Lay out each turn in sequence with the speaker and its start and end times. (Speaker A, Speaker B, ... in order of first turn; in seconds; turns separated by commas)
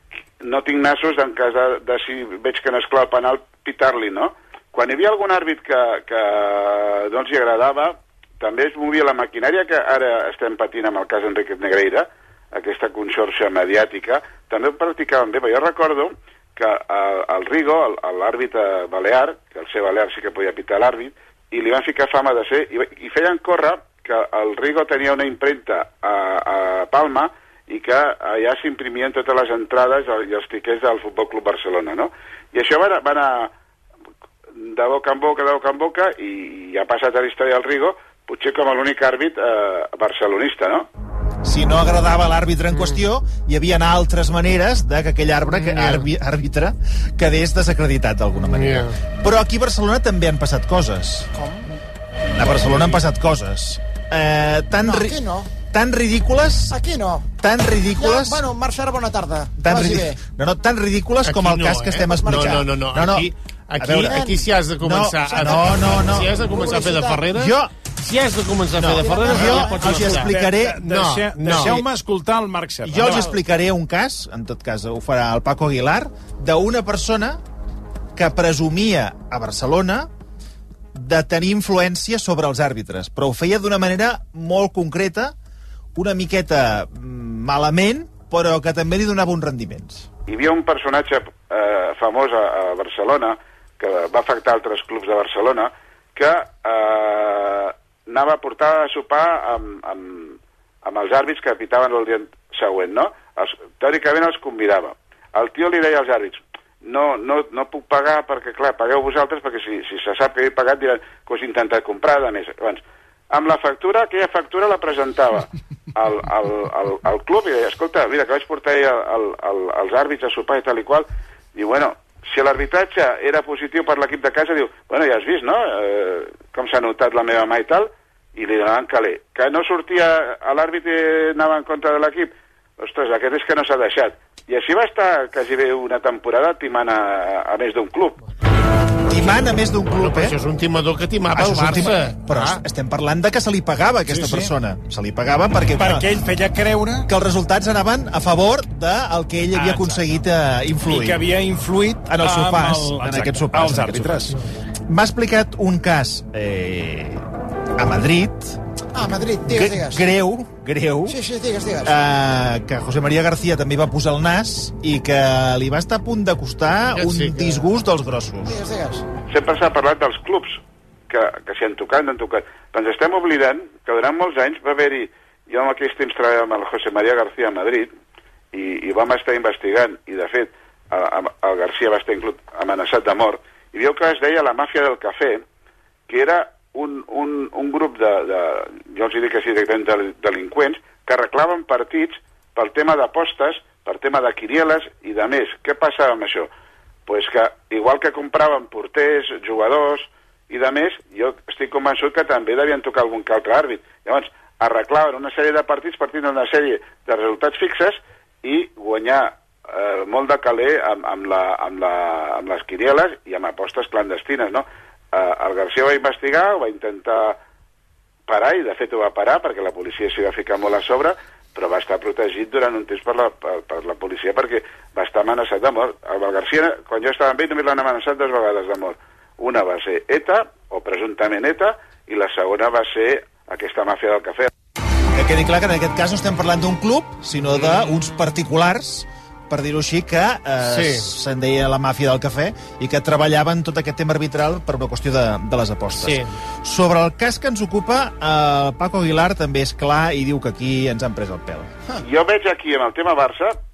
Speaker A: 0.4-33.5, Speaker A: 34.6-40.9, Speaker B: 41.4-51.3, Speaker C: 42.7-43.0, Speaker C: 45.5-46.1, Speaker C: 48.4-49.0, Speaker B: 52.3-56.8, Speaker D: 54.8-55.5, Speaker D: 56.7-57.3, Speaker B: 57.4-58.5, Speaker D: 58.0-60.2, Speaker B: 59.6-66.5, Speaker C: 61.2-71.9, Speaker D: 66.5-67.3, Speaker B: 67.3-67.7, Speaker B: 68.8-70.8, Speaker D: 69.0-70.0, Speaker E: 69.1-73.3, Speaker B: 72.8-77.4, Speaker B: 78.2-80.1, Speaker B: 80.9-85.3, Speaker B: 86.0-90.1, Speaker A: 90.3-138.2, Speaker B: 139.1-140.4, Speaker C: 139.1-142.6, Speaker B: 141.3-146.1, Speaker E: 144.1-144.5, Speaker E: 145.8-147.1, Speaker B: 147.1-151.2, Speaker E: 149.6-150.2, Speaker E: 150.9-154.4, Speaker B: 152.1-154.3, Speaker B: 154.9-157.2, Speaker B: 157.8-158.6, Speaker D: 159.0-160.1, Speaker B: 159.5-161.2, Speaker D: 161.1-161.9, Speaker B: 161.8-168.6, Speaker C: 166.9-167.7, Speaker D: 168.5-169.0, Speaker A: 169.3-177.9, Speaker A: 178.5-185.4, Speaker A: 186.1-196.5, Speaker A: 197.1-217.4, Speaker A: 218.3-234.5, Speaker B: 235.2-251.7, Speaker C: 237.5-237.9, Speaker C: 240.7-241.0, Speaker C: 246.0-246.3, Speaker A: 252.0-253.6